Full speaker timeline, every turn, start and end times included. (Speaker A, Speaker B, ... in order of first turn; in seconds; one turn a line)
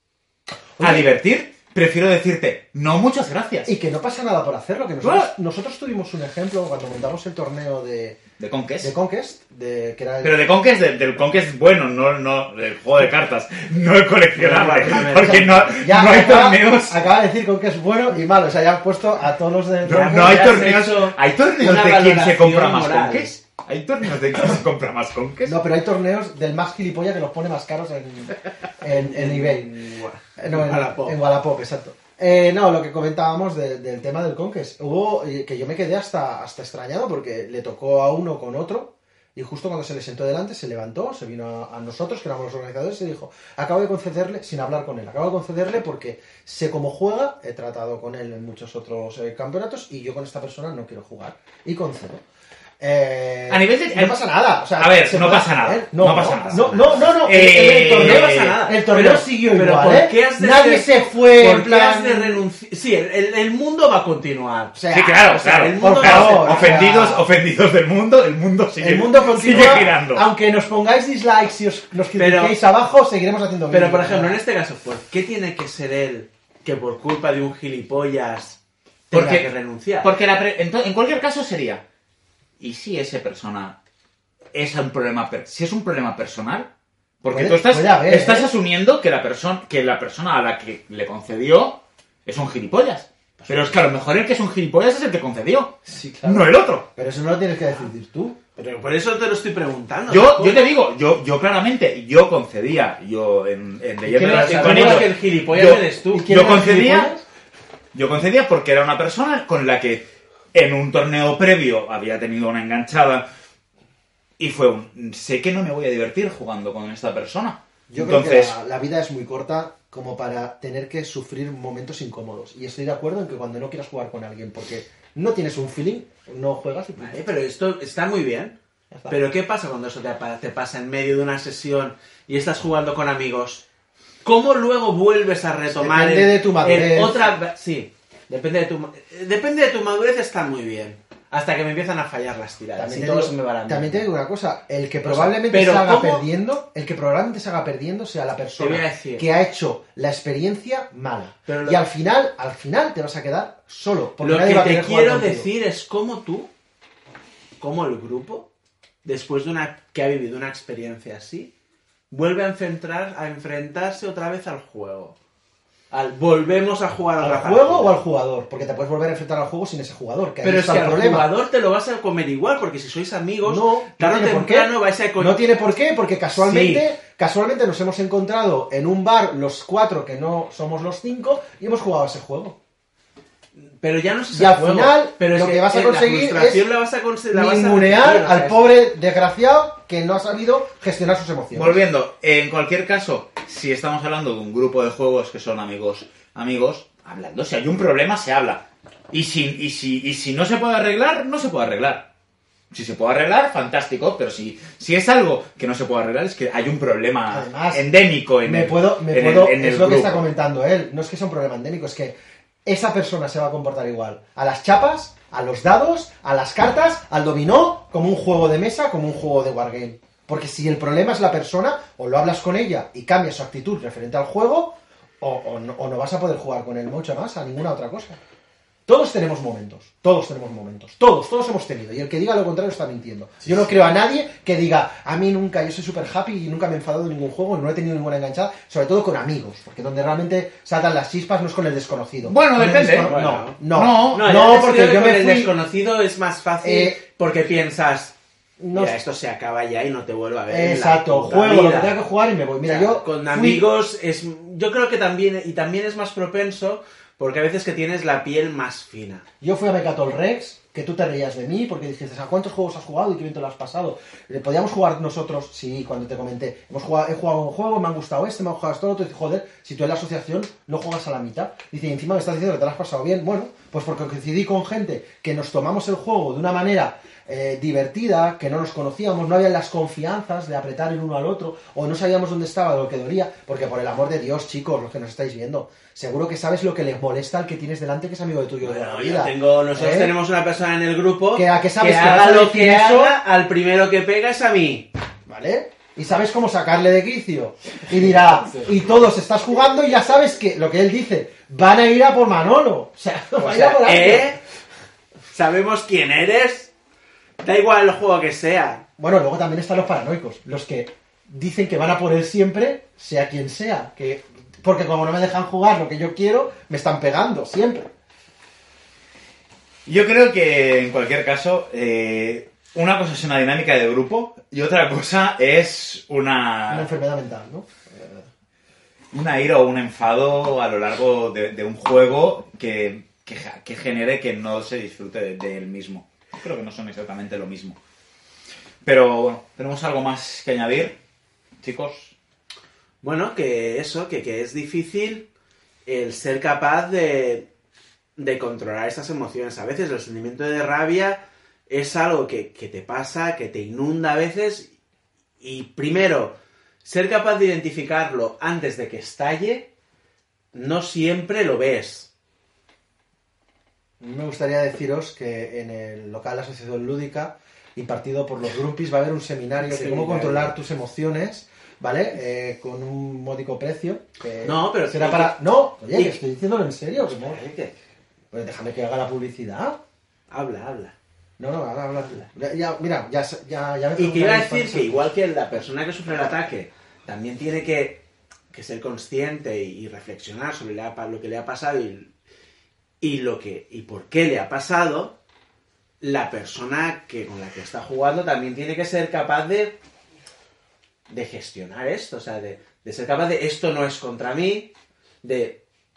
Speaker A: 0.8-1.1
Speaker B: 0.8-3.7
Speaker A: 3.6-8.2
Speaker B: 5.0-5.3
Speaker B: 8.4-8.9
Speaker A: 8.8-10.4
Speaker B: 10.2-17.0
Speaker C: 14.3-15.7
Speaker A: 14.9-20.6
Speaker B: 19.9-25.6
Speaker C: 19.9-23.4
Speaker A: 25.4-29.7
Speaker C: 28.9-31.2
Speaker A: 30.4-52.2
Speaker A: 52.8-62.4
Speaker B: 53.5-54.2
Speaker B: 54.8-58.6
Speaker C: 56.3-57.1
Speaker C: 57.9-67.1
Speaker A: 64.7-67.2
Speaker B: 64.9-70.2
Speaker A: 68.8-74.4
Speaker C: 72.2-72.5
Speaker C: 73.7-78.6
Speaker C: 79.1-80.1
Speaker B: 79.1-79.5
Speaker B: 80.0-81.8
Speaker B: 82.6-83.8
Speaker B: 84.5-86.7
Speaker B: 87.2-96.9
Speaker A: 87.3-88.5
Speaker C: 93.4-93.8
Speaker A: 95.9-98.4
Speaker C: 98.5-100.7
Speaker B: 100.1-107.1
Speaker C: 104.1-106.4
Speaker A: 104.1-105.1
Speaker A: 106.1-107.2
Speaker B: 107.9-113.2
Speaker B: 114.4-118.5
Speaker A: 117.9-127.2
Speaker C: 127.0-128.6
Speaker A: 128.9-129.2
Speaker C: 129.1-133.6
Speaker C: 134.2-144.1
Speaker A: 135.7-137.2
Speaker A: 142.8-155.5
Speaker C: 145.0-146.2
Speaker C: 148.6-149.3
Speaker C: 151.4-151.8
Speaker C: 154.2-156.5
Speaker C: 157.6-158.5
Speaker C: 159.0-161.5
Speaker C: 162.1-165.2
Speaker C: 165.9-167.9
Speaker A: 167.2-171.3
Speaker C: 170.4-175.4
Speaker A: 173.4-182.6
Speaker C: 176.3-176.9
Speaker C: 183.6-188.7
Speaker A: 184.3-186.7
Speaker A: 187.3-191.8
Speaker B: 191.5-202.0
Speaker B: 202.7-210.2
Speaker A: 207.3-207.9
Speaker A: 208.4-228.2
Speaker A: 228.8-245.5
Speaker B: 242.2-243.1
Speaker C: 243.0-248.1
Speaker B: 243.7-244.2
Speaker A: 246.6-247.0
Speaker A: 248.6-249.0
Speaker C: 248.7-252.0
Speaker A: 250.5-253.7
Speaker C: 252.6-259.2
Speaker A: 259.4-290.1
Speaker C: 288.6-294.9
Speaker A: 291.3-293.2
Speaker A: 295.3-304.4
Speaker C: 298.2-298.7
Speaker C: 303.4-304.4
Speaker C: 305.3-306.7
Speaker C: 307.4-308.8
Speaker A: 309.0-317.9
Speaker B: 319.9-326.9
Speaker A: 326.7-328.3
Speaker B: 329.1-337.8
Speaker B: 338.8-340.9
Speaker B: 341.6-342.1
Speaker C: 343.0-345.3
Speaker C: 345.9-347.5
Speaker C: 348.1-354.7
Speaker C: 355.4-359.7
Speaker C: 360.5-362.1
Speaker A: 364.0-377.4
Speaker C: 369.6-370.5
Speaker C: 374.4-376.2
Speaker C: 377.0-377.8
Speaker A: 378.3-379.8
Speaker C: 380.3-380.9
Speaker A: 381.4-385.0
Speaker C: 383.9-392.1
Speaker C: 393.0-395.1
Speaker C: 396.0-399.8
Speaker C: 401.1-404.7
Speaker C: 405.2-405.6